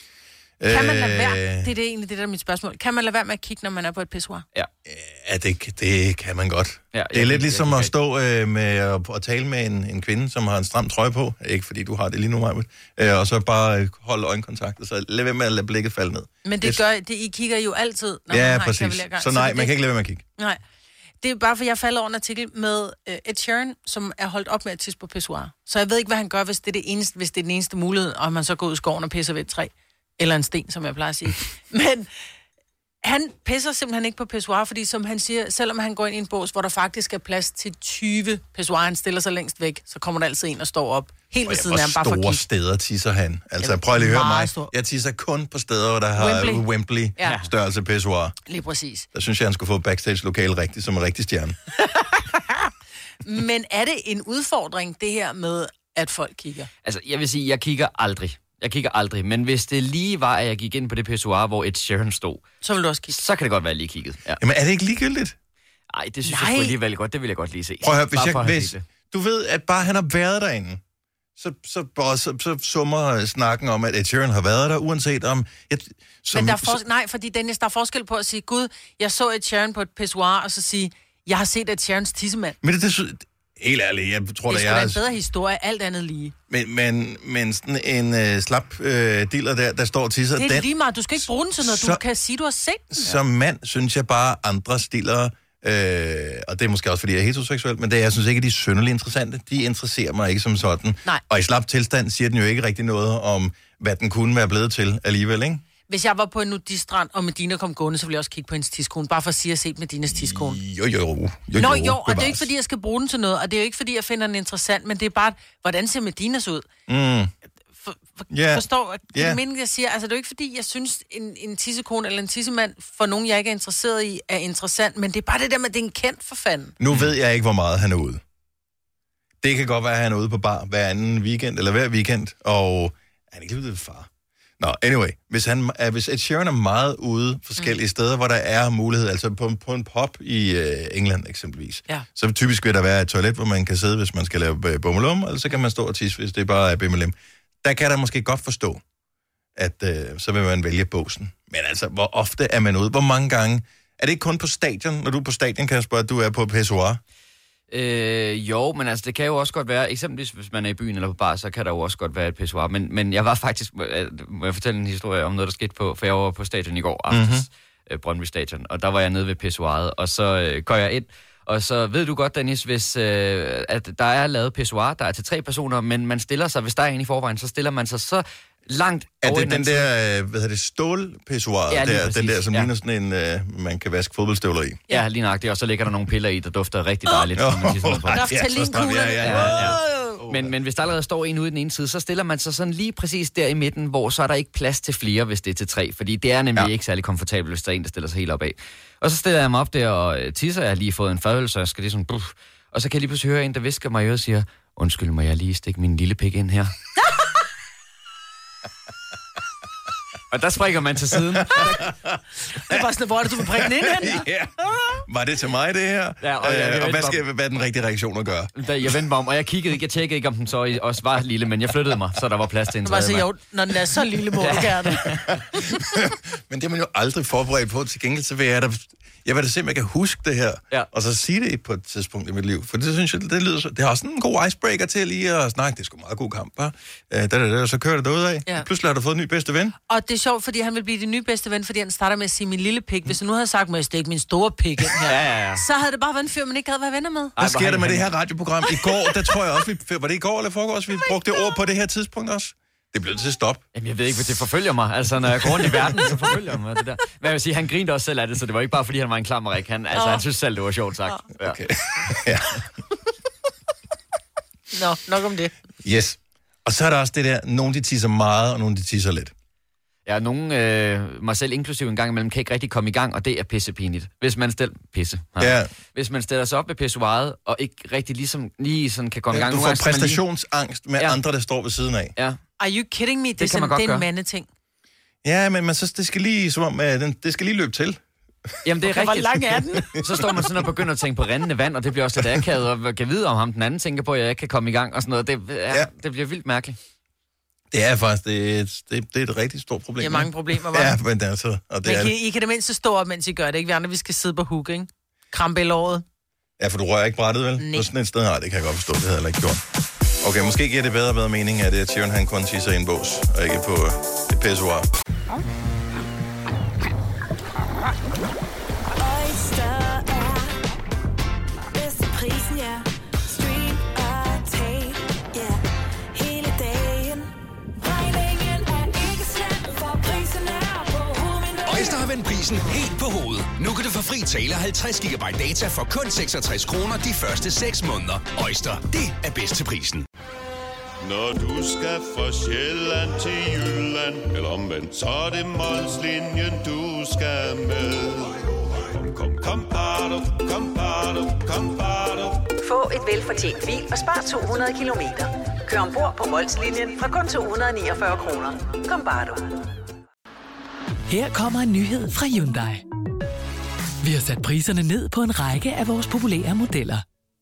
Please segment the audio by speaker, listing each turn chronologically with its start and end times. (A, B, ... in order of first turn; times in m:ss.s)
0:00.6-0:01.7 A
0:00.7-0:04.4 B
0:04.8-0:16.8 A
0:06.9-0:07.9 C
0:16.4-0:19.8 B
0:18.3-0:20.2 A
0:21.2-0:32.1 B
0:33.0-0:42.4 B
0:41.4-0:48.3 A
0:43.6-0:44.7 B
0:46.2-0:46.6 B
0:48.5-0:49.1 B
0:49.1-0:51.6 A
0:53.2-0:56.7 B
0:56.8-1:02.5 C
1:02.6-1:03.2 B
1:03.1-1:04.4 C
1:04.4-1:05.3 A
1:05.9-1:08.8 C
1:06.2-1:06.7 B
1:07.8-1:10.8 A
1:11.4-1:16.8 A
1:16.3-1:22.6 B
1:22.6-1:25.0 A
1:24.5-1:26.3 B
1:26.5-1:32.0 A
1:30.4-1:33.2 B
1:32.9-1:45.6 A
1:45.9-1:50.6 B
1:50.1-1:52.5 A
1:51.6-1:56.7 B
1:56.9-1:57.3 A
1:57.8-2:06.8 B
1:58.3-1:59.4 A
2:06.8-2:08.2 A
2:09.4-2:14.1 A
2:14.6-2:28.8 A
2:29.6-2:37.0 A
2:37.7-2:59.9 C
2:47.1-2:47.5 A
2:59.2-3:04.8 A
3:01.7-3:02.7 C
3:04.9-3:08.6 C
3:07.3-3:10.5 A
3:08.1-3:10.1 B
3:09.2-3:26.7 C
3:30.3-3:31.8 C
3:31.3-3:32.2 A
3:32.5-3:34.2 B
3:33.6-3:34.5 A
3:35.1-3:38.5 A
3:36.2-3:37.2 C
3:38.6-3:43.3 C
3:42.8-3:45.2 B
3:44.4-3:45.2 C
3:45.5-3:59.8 A
3:59.9-4:07.3 B
4:05.0-4:05.6 C
4:07.4-4:08.1 C
4:07.4-4:13.6 A
4:13.7-4:21.6 C
4:15.4-4:16.1 A
4:19.9-4:20.2 B
4:21.4-4:22.6 A
4:24.7-4:25.5 B
4:25.8-4:29.3 A
4:30.0-4:40.2 C
4:35.4-4:35.7 A
4:39.3-4:42.1 A
4:42.6-4:44.5 B
4:43.4-4:44.0 C
4:45.2-4:48.0 A
4:48.6-4:56.8 C
4:48.8-4:49.9 B
4:50.0-4:50.4 A
4:57.7-5:02.1 A
5:00.0-5:01.0 B
5:01.8-5:06.0 B
5:06.6-5:09.6 A
5:07.6-5:07.9 B
5:10.2-5:14.9 A
5:19.0-5:20.6 D
5:21.7-5:25.6 D
5:26.1-5:32.1 D
5:31.7-5:40.0 E
5:41.0-5:52.5 F
5:52.6-5:59.5 G
6:01.1-6:02.8 H
6:04.0-6:07.0 H